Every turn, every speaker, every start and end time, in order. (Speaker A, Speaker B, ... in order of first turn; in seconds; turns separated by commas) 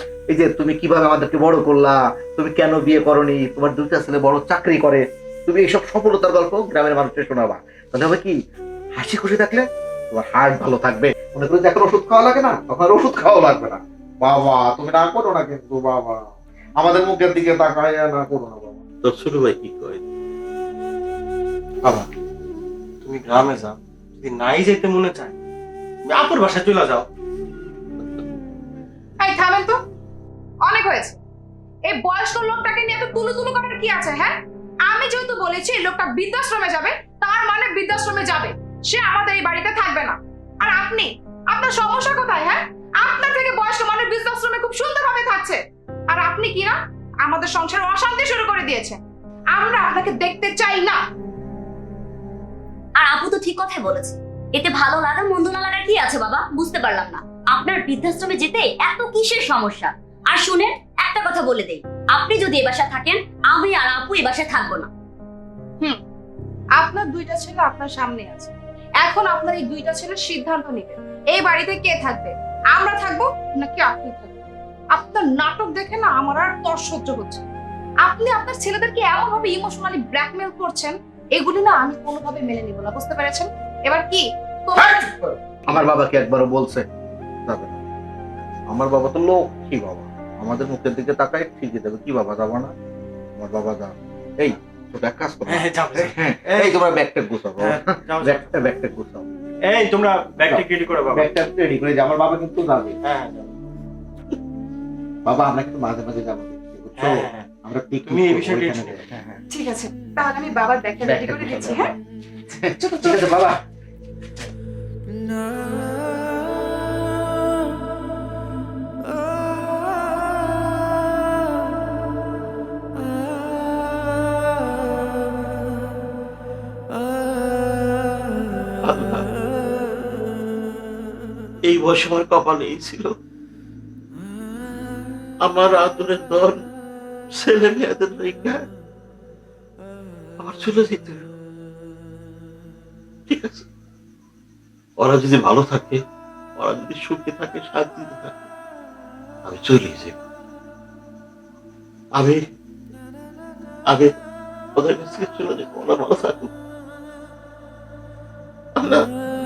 Speaker A: 0.3-8.4, Speaker A: 9.0-16.3, Speaker A: 16.8-18.8, Speaker B: 19.0-20.0, Speaker C: 21.8-22.1, Speaker C: 23.0-25.4, Speaker C: 26.1-27.1, Speaker D: 29.2-29.8, Speaker D: 30.6-31.2, Speaker D: 31.9-49.0, Speaker D: 49.5-51.0, Speaker E: 53.0-64.9, Speaker D: 66.8-77.4, Speaker D: 78.0-85.1, Speaker A: 84.8-86.9, Speaker A: 87.5-87.8, Speaker A: 88.7-92.7, Speaker A: 93.4-99.3, Speaker C: 95.5-96.8, Speaker C: 97.6-98.5, Speaker C: 99.7-101.4, Speaker A: 100.4-103.0, Speaker C: 103.0-103.5, Speaker A: 105.2-109.1, Speaker C: 107.0-107.5, Speaker C: 108.0-109.4, Speaker D: 109.5-111.9, Speaker A: 111.0-112.0, Speaker A: 112.5-113.6, Speaker D: 112.8-113.3, Speaker B: 128.8-129.3, Speaker B: 131.7-133.1, Speaker B: 135.4-136.6, Speaker B: 137.4-138.7, Speaker B: 140.4-141.3, Speaker B: 143.3-143.7, Speaker B: 145.0-146.0, Speaker B: 146.6-148.5, Speaker B: 149.5-150.2, Speaker B: 154.8-156.5, Speaker B: 158.8-159.1